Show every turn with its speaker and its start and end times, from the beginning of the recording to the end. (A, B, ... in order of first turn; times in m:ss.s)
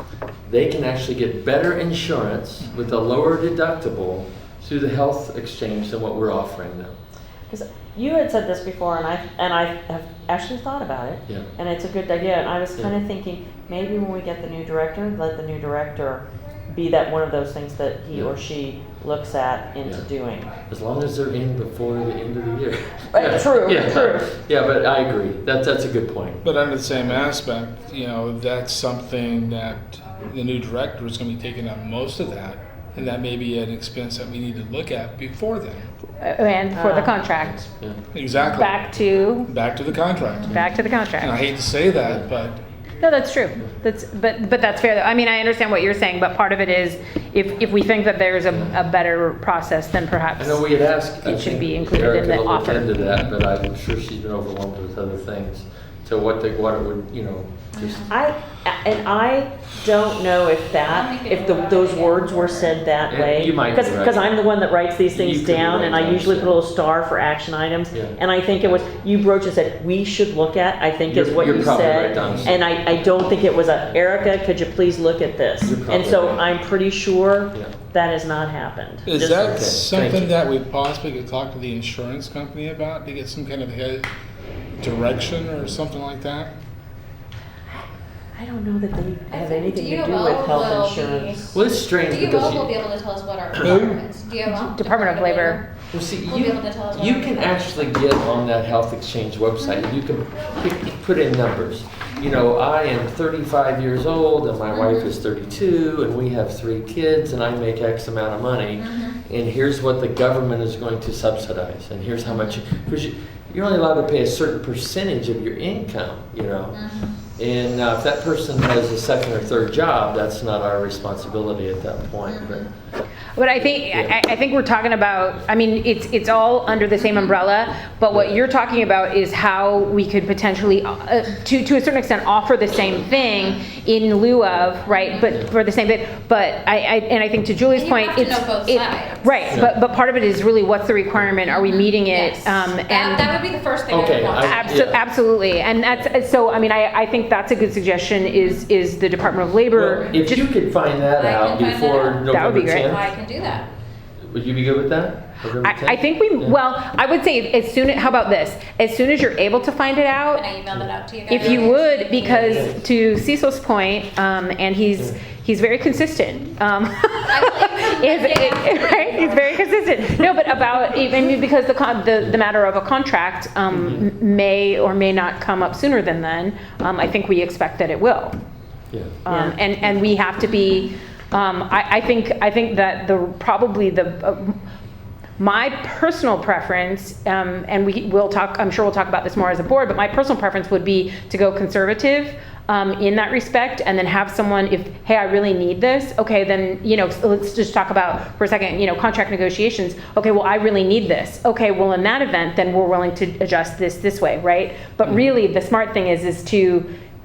0:00.4-0:07.0 A
0:07.5-0:20.5 B
0:20.7-0:26.4 A
0:23.1-0:24.3 B
0:26.4-0:35.9 C
0:36.2-0:37.7 D
0:36.7-0:37.2 B
0:37.4-0:38.0 A
0:38.1-0:40.6 C
0:38.5-0:39.5 D
0:40.3-0:41.0 E
0:40.4-0:41.4 D
0:41.1-0:42.6 C
0:43.0-0:53.0 D
0:48.5-0:48.8 A
0:50.4-0:58.1 A
0:57.7-0:58.1 E
0:58.1-1:19.5 B
1:00.8-1:02.8 E
1:03.0-1:04.4 A
1:05.1-1:06.6 A
1:07.9-1:08.9 A
1:11.1-1:12.7 A
1:12.2-1:12.5 C
1:15.6-1:16.5 A
1:19.1-1:24.1 C
1:19.4-1:20.3 A
1:24.8-1:26.5 C
1:28.4-1:31.6 B
1:29.3-1:31.4 E
1:31.5-1:32.7 A
1:32.1-1:35.7 E
1:33.6-1:34.0 C
1:33.6-1:33.9 A
1:34.5-1:35.6 D
1:35.9-1:56.8 A
1:36.3-1:37.9 E
1:39.6-1:39.9 E
1:44.7-1:45.1 E
1:48.8-1:49.2 E
1:52.3-1:52.6 E
1:56.7-1:57.2 E
1:57.4-2:02.7 A
2:02.2-2:02.7 E
2:03.4-2:23.4 D
2:03.7-2:04.2 A
2:07.0-2:07.4 E
2:08.1-2:08.4 A
2:13.3-2:13.6 E
2:14.9-2:15.3 E
2:17.7-2:19.5 E
2:21.5-2:24.8 E
2:23.9-2:25.0 A
2:24.4-2:30.5 D
2:28.2-2:28.6 E
2:29.7-2:33.1 A
2:31.2-2:33.7 E
2:32.3-2:33.0 D
2:34.2-2:36.6 A
2:35.6-2:40.4 D
2:40.3-2:42.6 E
2:41.3-2:58.3 D
2:41.4-2:41.7 A
2:42.2-2:42.8 A
2:47.3-2:49.7 E
2:53.7-2:54.0 A
2:58.9-2:59.2 A
2:59.3-3:04.6 D
2:59.3-2:59.6 B
3:05.4-3:26.9 D